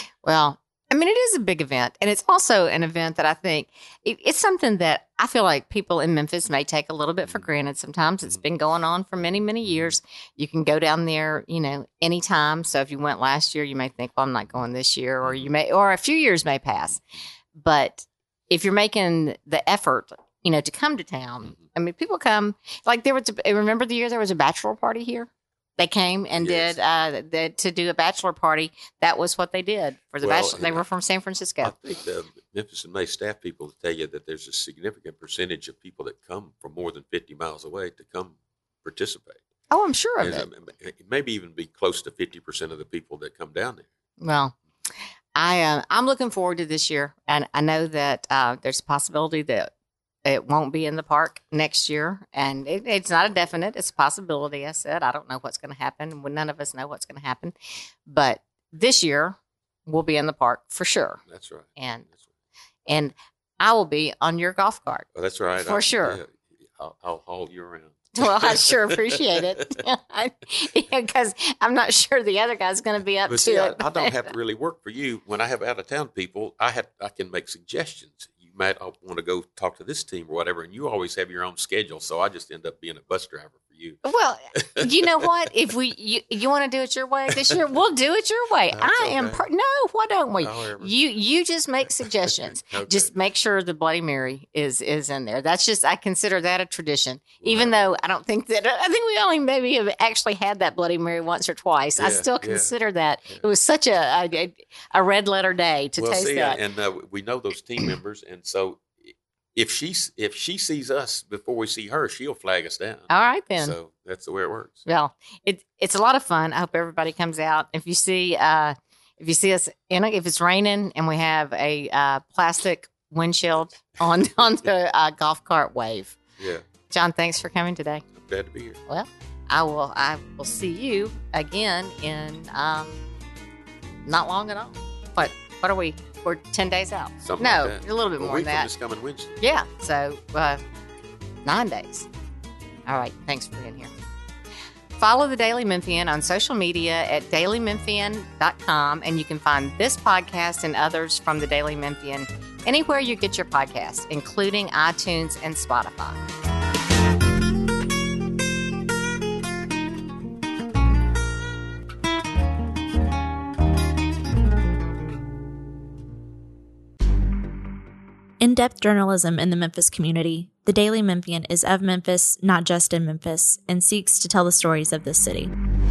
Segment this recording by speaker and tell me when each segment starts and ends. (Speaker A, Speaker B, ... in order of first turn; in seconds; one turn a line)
Speaker A: 0.2-17.0
Speaker A: 17.6-31.7
Speaker B: 26.4-26.8
Speaker B: 30.2-30.8
Speaker B: 31.6-39.4
Speaker A: 39.7-40.5
Speaker B: 40.2-43.9
Speaker A: 44.2-44.6
Speaker A: 45.4-49.7
Speaker A: 50.3-57.5
Speaker A: 58.1-61.2
Speaker B: 61.3-62.1
Speaker A: 61.8-62.1
Speaker A: 62.9-65.1
Speaker B: 65.1-69.7
Speaker A: 65.6-66.2
Speaker A: 68.2-74.3
Speaker B: 73.3-84.0
Speaker A: 84.0-106.6
Speaker B: 84.5-85.3
Speaker B: 88.7-89.4
Speaker B: 90.4-90.9
Speaker B: 92.0-93.1
Speaker B: 97.4-97.9
Speaker B: 102.0-102.7
Speaker B: 106.0-114.8
Speaker A: 113.1-113.8
Speaker A: 114.9-126.2
Speaker B: 126.4-126.7
Speaker A: 126.9-128.1
Speaker B: 128.2-128.8
Speaker A: 128.9-133.0
Speaker A: 134.1-138.7
Speaker B: 137.2-139.4
Speaker A: 139.4-140.6
Speaker A: 141.4-142.1
Speaker A: 142.9-143.9
Speaker A: 145.0-156.2
Speaker C: 168.4-175.5